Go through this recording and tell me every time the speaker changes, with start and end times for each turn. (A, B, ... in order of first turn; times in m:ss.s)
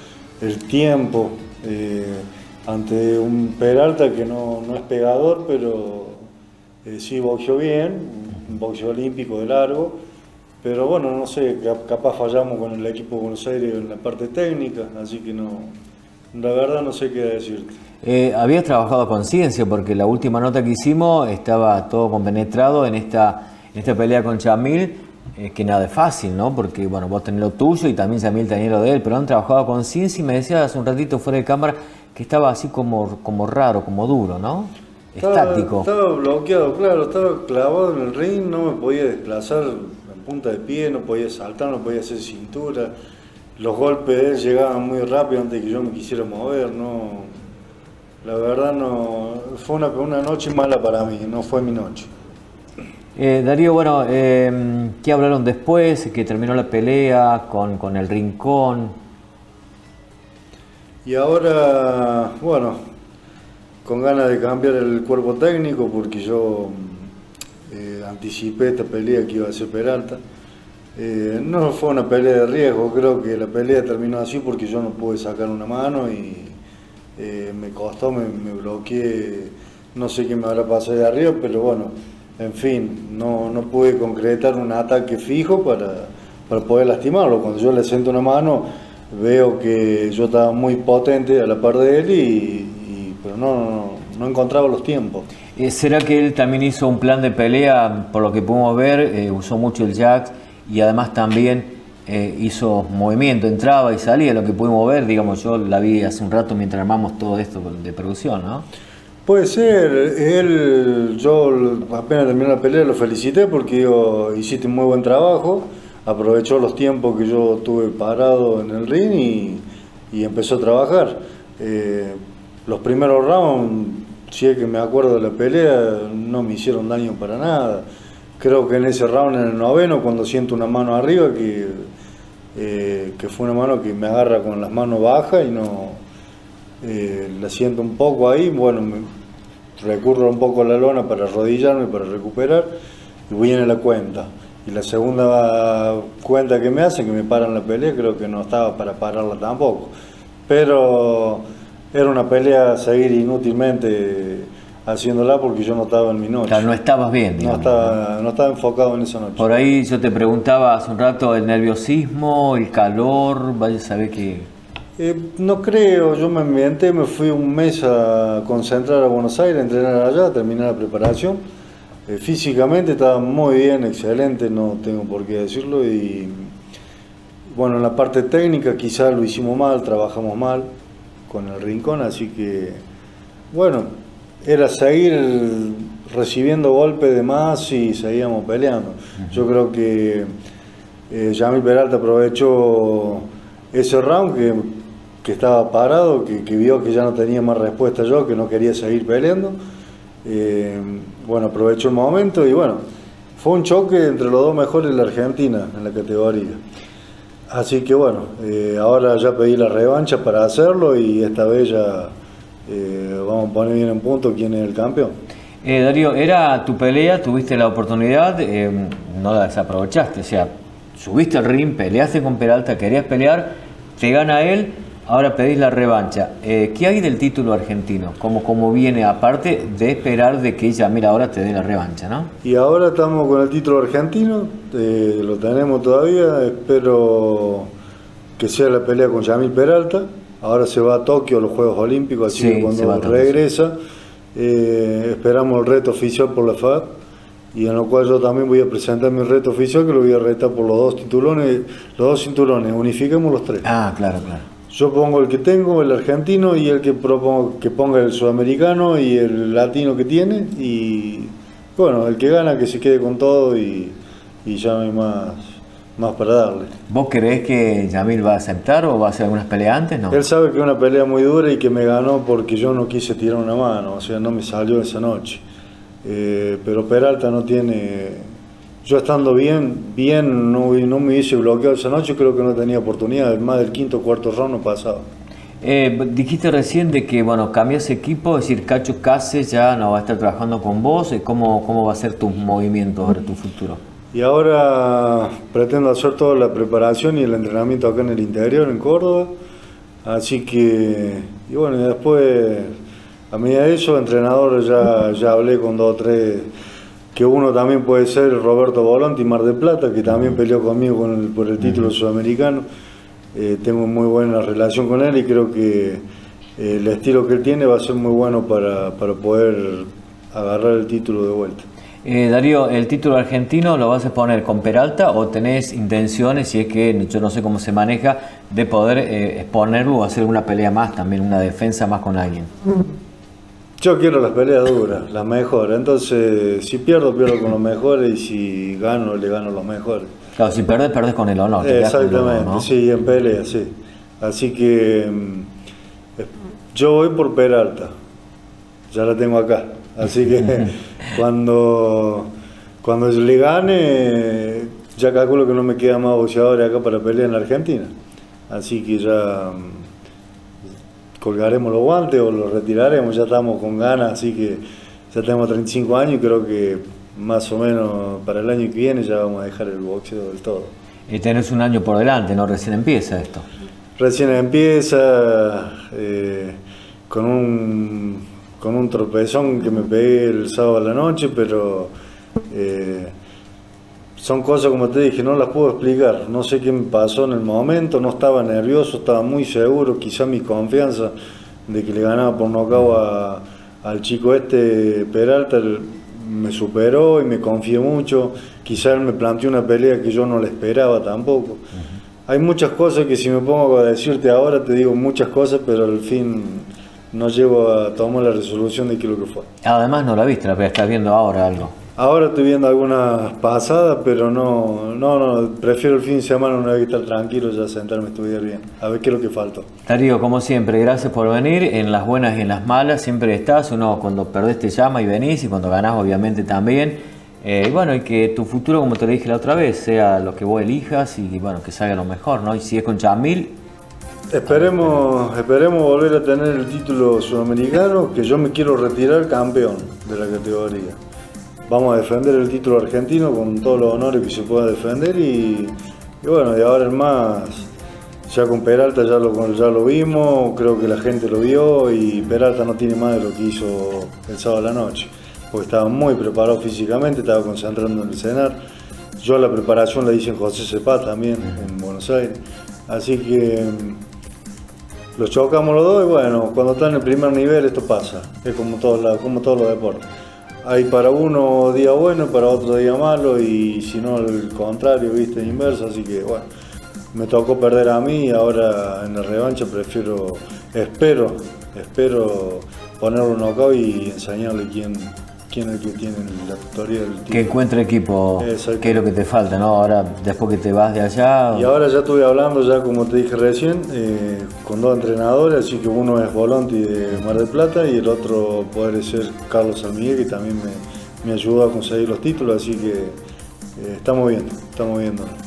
0:00.4-0:06.3 A
0:06.8-0:10.0 A
0:10.6-0:15.8 A
0:16.3-0:17.8 A
0:18.0-0:35.9 B
0:35.2-0:42.9 A
0:43.6-0:47.3 A
0:48.2-0:52.1 A
0:53.2-0:58.9 B
1:01.0-1:02.8 A
1:03.8-1:07.1 A
1:07.7-1:10.2 A
1:11.0-1:16.6 A
1:17.2-1:35.3 A
1:35.6-1:48.7 B
1:49.3-2:07.8 A
2:08.4-2:11.9 A
2:12.6-2:16.0 A
2:16.8-2:19.1 A
2:19.8-2:22.7 A
2:23.3-2:29.9 A
2:30.5-2:36.7 A
2:36.5-2:38.0 B
2:37.4-2:39.5 A
2:39.4-2:44.5 B
2:45.0-2:51.4 A
2:52.1-2:56.5 A
2:57.5-3:00.7 A
3:01.3-3:02.8 A
3:03.5-3:03.9 A
3:04.4-3:10.3 A
3:11.1-3:19.6 A
3:20.2-3:22.8 A
3:23.4-3:26.6 A
3:27.5-3:32.1 A
3:32.7-3:35.1 A
3:35.6-3:52.3 B
3:52.4-3:57.7 A
3:58.4-4:03.8 A
4:02.3-4:03.3 B
4:04.4-4:06.9 A
4:07.5-4:13.7 A
4:13.6-4:14.4 B
4:14.7-4:26.7 A
4:26.9-4:30.2 B
4:30.1-4:35.4 A
4:36.0-4:38.3 A
4:38.8-4:45.1 A
4:45.6-4:53.8 B
4:54.1-4:59.3 A
5:00.0-5:02.7 A
5:03.3-5:06.5 A
5:07.2-5:12.6 A
5:13.3-5:16.0 A
5:16.6-5:21.7 A
5:22.0-5:32.5 B
5:33.8-5:40.1 A
5:40.4-5:42.7 B
5:41.6-5:45.5 A
5:46.2-5:47.9 A
5:48.9-5:52.3 A
5:52.8-5:57.9 A
5:58.5-5:59.9 A
6:01.2-6:10.7 A
6:11.1-6:13.4 B
6:14.0-6:16.6 A
6:17.1-6:21.9 A
6:22.5-6:23.1 A
6:24.2-6:31.1 A
6:31.7-6:41.6 A
6:42.3-6:49.5 A
6:49.6-6:51.8 B
6:52.0-6:59.7 A
6:59.9-7:13.5 B
7:14.3-7:21.0 A
7:14.5-7:14.9 B
7:21.7-7:27.7 A
7:28.3-7:38.6 A
7:39.2-7:42.4 A
7:42.9-7:44.0 A
7:45.2-7:50.1 A
7:50.6-7:56.4 A
7:57.1-8:07.6 A
8:07.3-8:11.7 B
8:08.4-8:09.1 A
8:11.5-8:23.2 A
8:23.8-8:25.3 A